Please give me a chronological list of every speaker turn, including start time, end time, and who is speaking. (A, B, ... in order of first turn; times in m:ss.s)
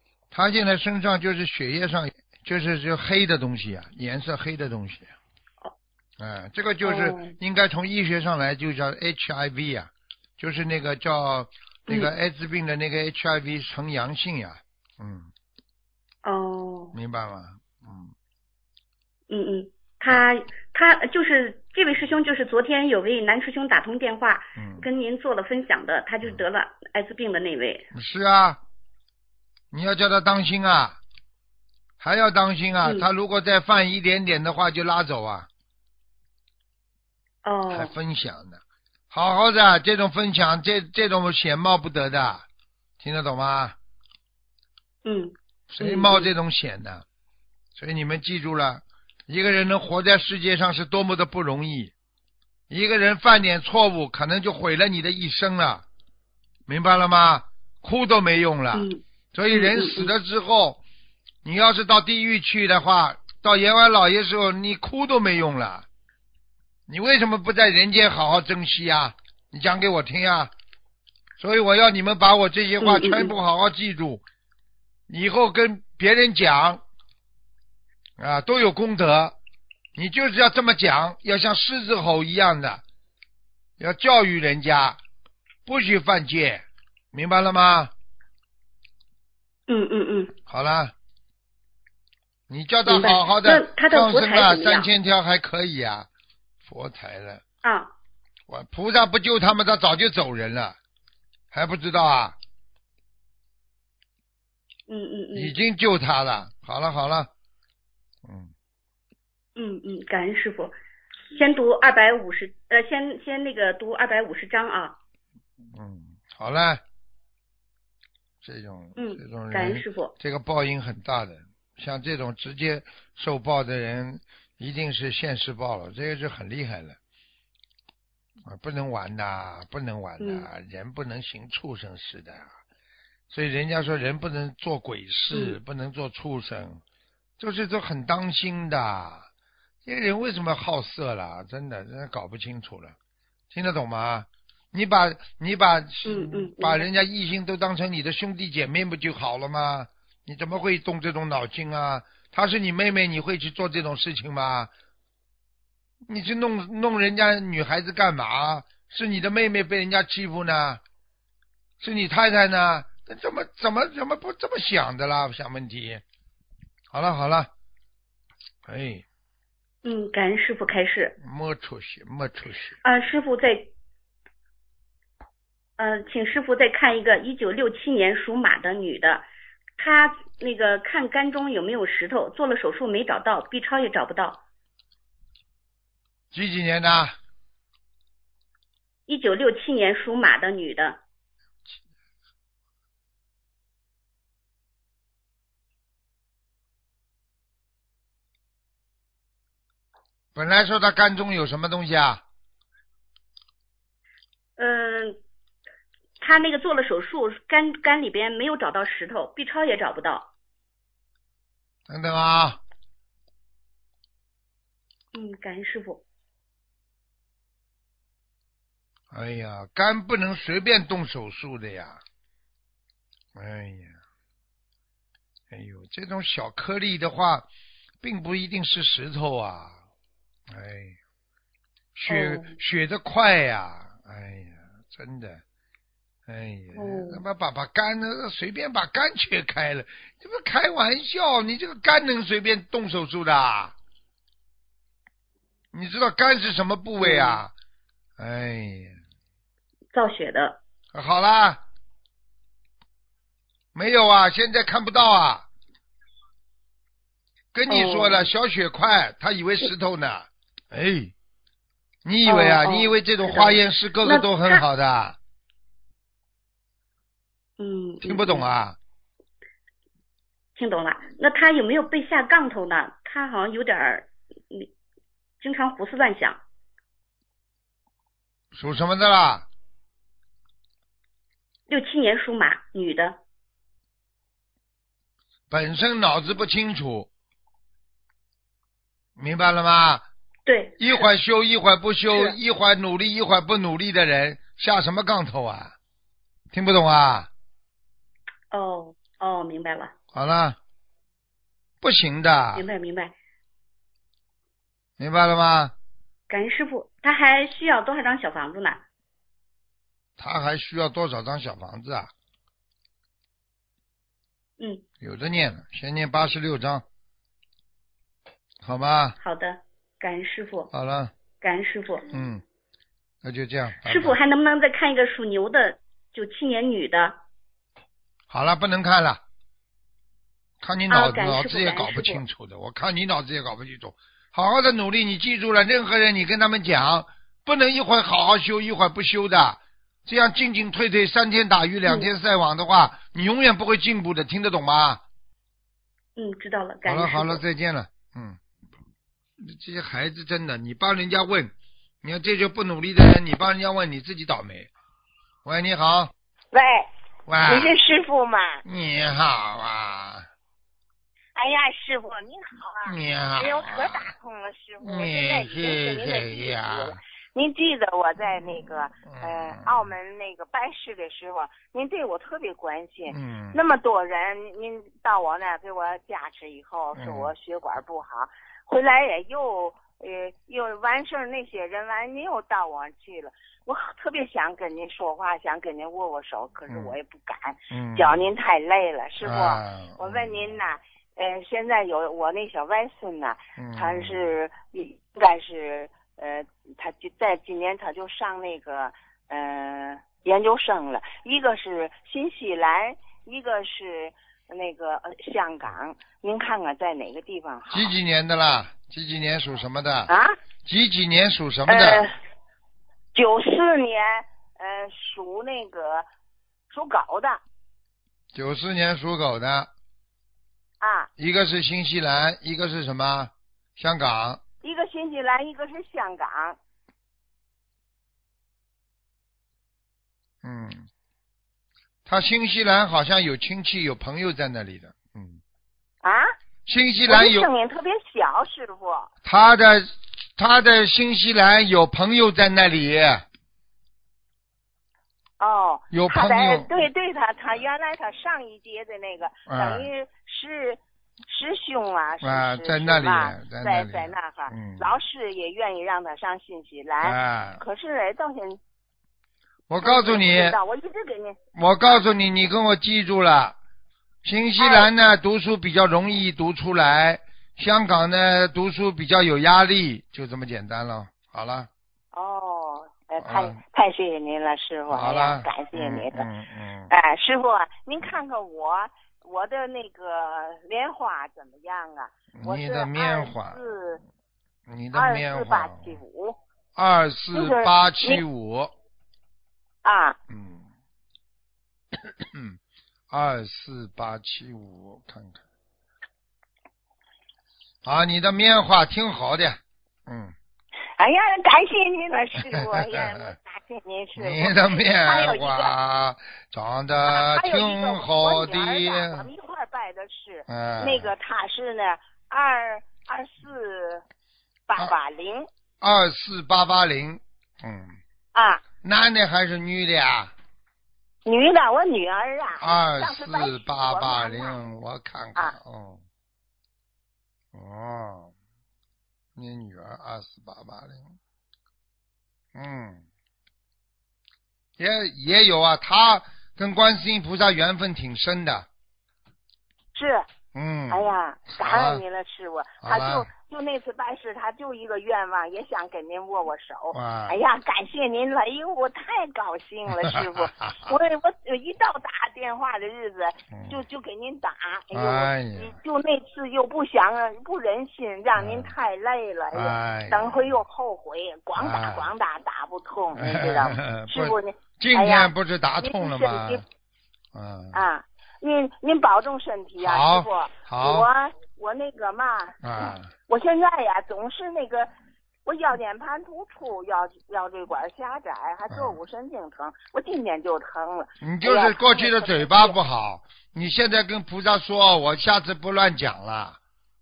0:00.3-0:05.1 A
0:06.2-0:15.3 A
0:06.8-0:07.4 B
0:16.2-0:16.9 B
0:16.9-0:18.1 A
0:19.3-0:27.9 B
0:24.6-0:24.9 A
0:27.9-0:28.6 A
0:29.7-0:31.0 A
0:32.0-0:35.5 A
0:37.4-0:37.9 B
0:37.7-0:38.6 A
0:39.1-0:42.4 A
0:43.0-0:43.8 A
0:45.0-0:46.3 B
0:45.7-0:47.0 A
0:47.8-0:51.9 A
0:52.7-0:55.8 A
0:56.7-1:00.8 A
0:58.7-1:00.1 B
1:01.4-1:05.9 A
1:06.9-1:10.5 A
1:11.4-1:14.2 A
1:12.8-1:13.4 B
1:15.1-1:16.8 A
1:18.2-1:19.4 A
1:20.0-1:22.8 A
1:23.8-1:25.0 A
1:25.7-1:27.9 A
1:29.7-1:30.4 B
1:30.5-1:30.9 A
1:32.5-1:36.1 A
1:32.9-1:34.9 B
1:36.6-1:37.4 A
1:37.6-1:37.9 B
1:38.5-1:40.8 A
1:41.5-1:42.4 A
1:44.9-1:45.6 B
1:45.3-1:47.3 A
1:48.2-1:48.5 A
1:49.6-1:50.8 B
1:51.3-1:55.0 B
1:55.7-1:56.8 A
1:58.4-2:07.0 A
1:59.0-2:00.1 B
2:08.5-2:12.5 A
2:10.2-2:10.5 B
2:13.3-2:16.8 A
2:15.3-2:15.6 B
2:17.4-2:19.3 A
2:19.8-2:23.0 A
2:23.5-2:34.7 A
2:26.0-2:26.9 B
2:36.1-2:40.8 A
2:41.8-2:46.0 A
2:46.9-2:47.5 A
2:48.7-2:49.0 A
2:49.8-2:51.2 B
2:51.2-2:52.8 A
2:52.8-2:53.7 B
2:55.8-2:59.2 B
2:59.8-3:04.4 B
3:06.3-3:07.2 A
3:09.1-3:11.0 B
3:20.4-3:22.2 A
3:24.6-3:25.2 B
3:26.2-3:30.3 B
3:31.9-3:32.6 A
3:35.1-3:36.0 B
3:39.1-3:42.0 A
3:43.4-3:44.0 A
3:45.5-3:47.5 A
3:48.0-3:49.8 A
3:50.5-3:51.0 A
3:51.9-3:55.4 A
3:52.1-3:52.6 B
3:56.3-4:03.7 A
3:56.8-3:57.2 B
4:05.7-4:07.5 A
4:07.0-4:07.4 B
4:08.2-4:09.0 A
4:09.9-4:10.6 B
4:10.9-4:11.6 A
4:13.7-4:15.5 A
4:17.5-4:21.1 A
4:17.7-4:18.2 B
4:22.0-4:25.2 A
4:22.3-4:24.6 B
4:27.6-4:28.5 B
4:28.0-4:28.8 A
4:30.6-4:34.7 B
4:35.4-4:36.4 B
4:38.5-4:39.5 A
4:41.7-4:43.2 B
4:45.5-4:47.1 A
4:49.2-4:50.1 A
4:50.5-4:51.1 B
4:50.8-4:55.8 A
4:52.1-4:52.4 B
4:56.5-4:57.3 A
4:58.5-4:59.9 B
5:00.1-5:00.6 A
5:01.8-5:02.7 A
5:02.6-5:03.2 B
5:05.0-5:05.8 A
5:06.3-5:08.8 B
5:10.2-5:12.1 A
5:14.6-5:14.8 B
5:15.0-5:16.8 A
5:18.6-5:19.2 A
5:19.2-5:20.7 B
5:20.7-5:21.1 A
5:21.4-5:22.1 B
5:22.1-5:22.4 A
5:23.2-5:24.2 A
5:23.8-5:27.2 B
5:28.3-5:29.2 A
5:30.6-5:45.0 A
5:30.9-5:32.2 B
5:46.2-5:47.4 B
5:46.9-5:48.4 A
5:49.4-5:54.7 A
5:55.4-5:56.1 A
5:56.5-5:56.9 C
5:57.3-5:57.8 A
5:57.4-5:58.6 C
5:58.6-6:00.3 A
6:01.4-6:48.0 C
6:02.8-6:04.1 A
6:04.8-6:07.0 A
6:09.1-6:09.9 A
6:13.1-6:13.6 A
6:17.0-6:17.3 A
6:26.7-6:27.0 A
6:27.7-6:28.2 A
6:29.2-6:30.6 A
6:33.6-6:34.3 A
6:47.7-6:50.1 A
6:50.1-6:50.4 C
6:50.6-6:52.1 A
6:51.7-6:52.2 C
6:53.2-6:56.1 C
6:56.7-6:57.4 C
6:58.3-6:59.7 A
7:00.8-7:01.1 C
7:01.2-7:04.4 A
7:04.6-7:06.6 C
7:10.4-7:10.9 A
7:12.1-7:15.4 A
7:16.0-7:16.3 C
7:16.7-7:17.5 A
7:17.1-7:19.1 C
7:19.2-7:23.2 A
7:25.4-7:38.6 C
7:25.9-7:26.8 A
7:29.5-7:29.9 A
7:32.2-7:34.9 A
7:37.0-7:37.6 A
7:39.7-7:40.6 A
7:39.8-7:42.0 C
7:41.6-7:43.6 A
7:44.2-7:51.7 A
7:44.6-7:44.9 C
7:52.1-7:56.3 C
7:53.2-7:53.6 A
7:54.9-7:56.9 A
7:56.9-8:04.0 C
8:02.3-8:03.6 A
8:04.7-8:06.0 A
8:04.9-8:06.4 C
8:06.8-8:08.7 A
8:07.3-8:08.2 C
8:09.8-8:10.2 C
8:10.3-8:10.7 A
8:12.0-8:12.6 A
8:13.1-8:15.4 A
8:17.8-8:20.4 A
8:21.0-8:25.8 C
8:22.4-8:23.4 A
8:24.2-8:29.3 A
8:27.1-8:34.0 C
8:30.5-8:31.1 A
8:34.7-8:35.5 C
8:35.8-8:38.0 A
8:38.3-8:38.6 C
8:38.8-8:40.3 A
8:41.3-8:44.6 C
8:42.6-8:46.0 A
8:47.5-8:48.3 A
8:49.4-8:51.2 A
8:52.6-8:53.0 A
8:54.8-8:58.7 A
9:00.0-9:00.3 C
9:00.5-9:02.0 A
9:00.9-9:26.6 C
9:02.8-9:03.3 A
9:06.9-9:07.4 A
9:10.0-9:10.9 A
9:13.5-9:13.8 A
9:14.9-9:15.8 A
9:18.4-9:18.7 A
9:19.5-9:20.6 A
9:21.6-9:22.1 A
9:23.2-9:26.6 A
9:27.3-9:27.8 A
9:27.7-9:34.9 C
9:29.8-9:31.1 A
9:32.6-9:33.1 A
9:35.4-9:42.8 C
9:38.7-9:39.0 A
9:41.2-9:46.6 A